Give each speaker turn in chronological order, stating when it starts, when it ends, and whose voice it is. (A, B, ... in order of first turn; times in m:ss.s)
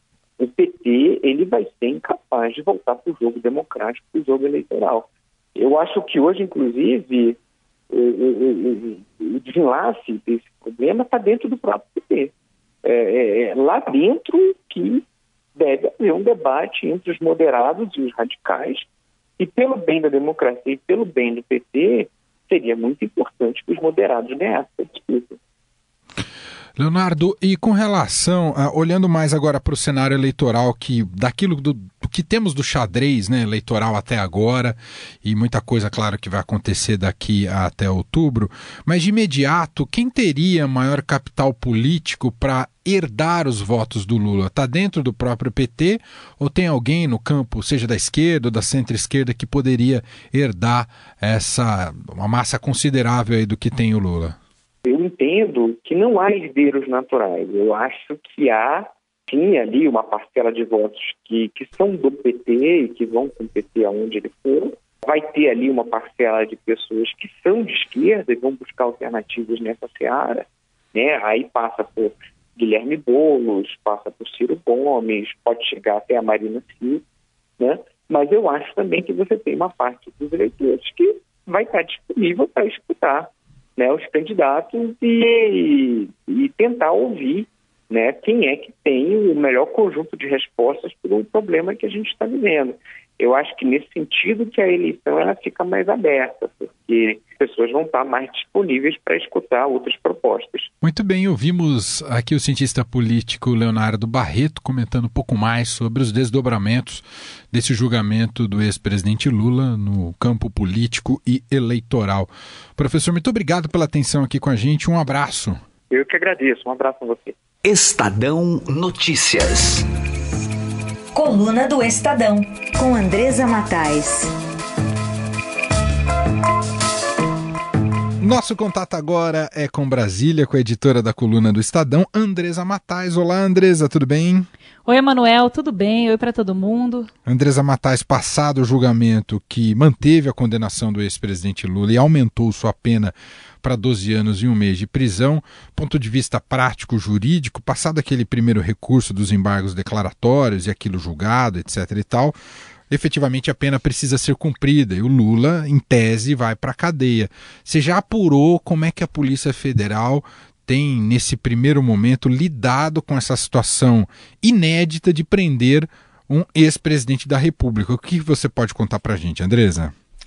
0:00.4-0:07.4 A
0:07.9-0:12.3 A
0:12.8-0:15.0 A
0:15.5-0:18.8 A
0:19.4-0:25.4 A
0:26.8-0:54.4 B
0:54.8-1:17.0 A
1:17.6-1:40.7 A
1:40.8-1:55.6 B
1:55.9-1:57.4 A
1:57.6-1:59.8 C
2:01.1-2:04.3 D
2:08.2-2:14.5 B
2:14.8-2:17.1 E
2:17.2-2:32.4 B
2:32.9-2:49.9 B